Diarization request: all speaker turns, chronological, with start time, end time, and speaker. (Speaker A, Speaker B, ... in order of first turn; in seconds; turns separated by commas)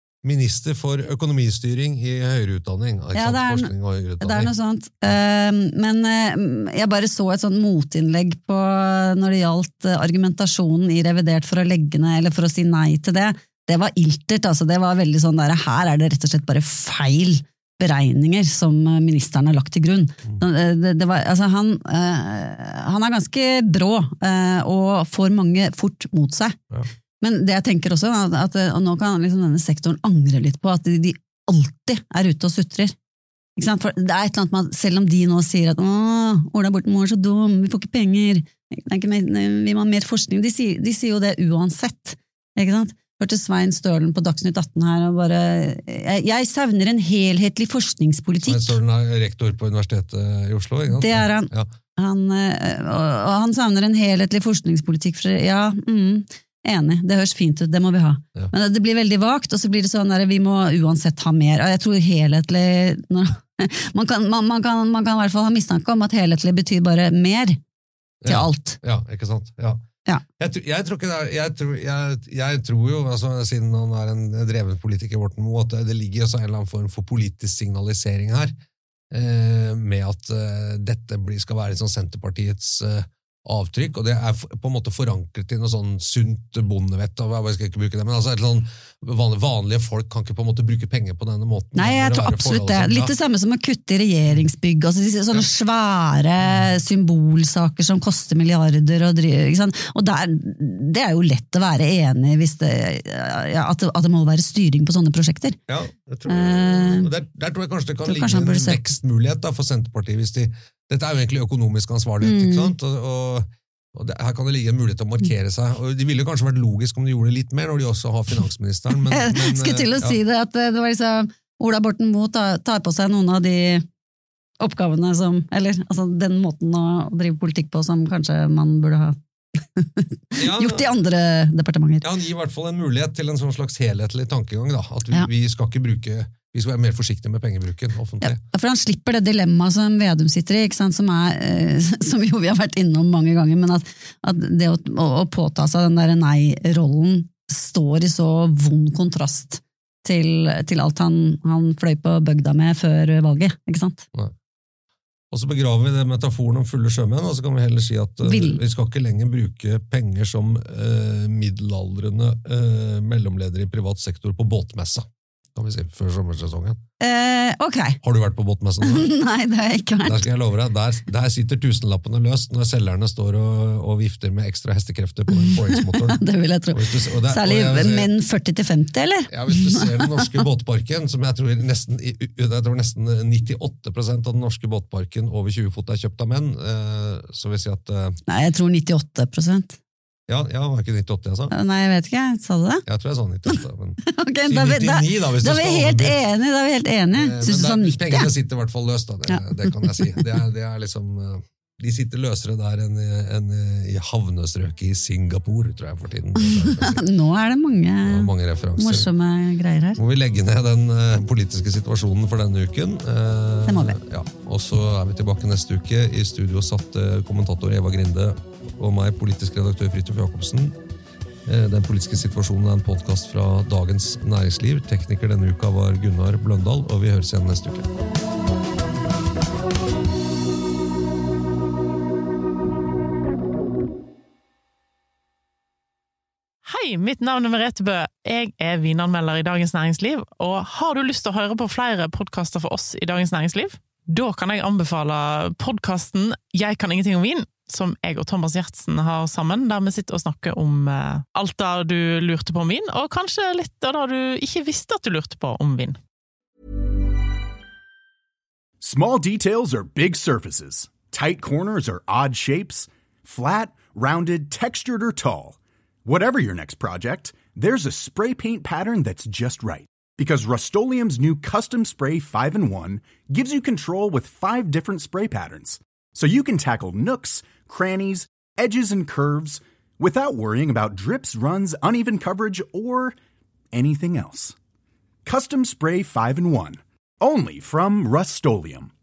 Speaker A: 0.2-4.5, Speaker B: 3.1-26.6, Speaker B: 27.2-32.9, Speaker B: 33.5-48.8, Speaker A: 48.4-51.7, Speaker B: 50.9-67.6, Speaker A: 68.2-69.8, Speaker B: 68.2-68.8, Speaker A: 70.4-78.5, Speaker A: 79.1-93.1, Speaker B: 91.7-105.6, Speaker A: 96.4-96.7, Speaker A: 105.7-120.2, Speaker B: 106.2-107.1, Speaker B: 108.0-108.8, Speaker B: 112.2-112.7, Speaker B: 119.1-123.8, Speaker B: 124.6-132.0, Speaker A: 130.4-130.9, Speaker A: 132.0-138.4, Speaker B: 138.2-154.0, Speaker A: 155.3-166.8, Speaker B: 158.2-158.6, Speaker B: 167.0-168.0, Speaker A: 168.0-169.1, Speaker B: 168.8-170.2, Speaker A: 170.0-176.2, Speaker B: 175.3-180.3, Speaker A: 176.7-178.1, Speaker A: 179.3-188.2, Speaker B: 188.3-189.8, Speaker A: 190.3-191.5, Speaker B: 191.5-192.8, Speaker A: 192.8-196.2, Speaker B: 193.5-198.3, Speaker A: 197.1-207.1, Speaker B: 199.3-200.3, Speaker B: 206.4-210.0, Speaker A: 208.1-209.1, Speaker A: 209.9-220.8, Speaker B: 213.7-214.0, Speaker A: 221.4-227.9, Speaker C: 236.6-256.0, Speaker D: 258.8-283.1, Speaker D: 283.7-284.5, Speaker D: 285.2-288.9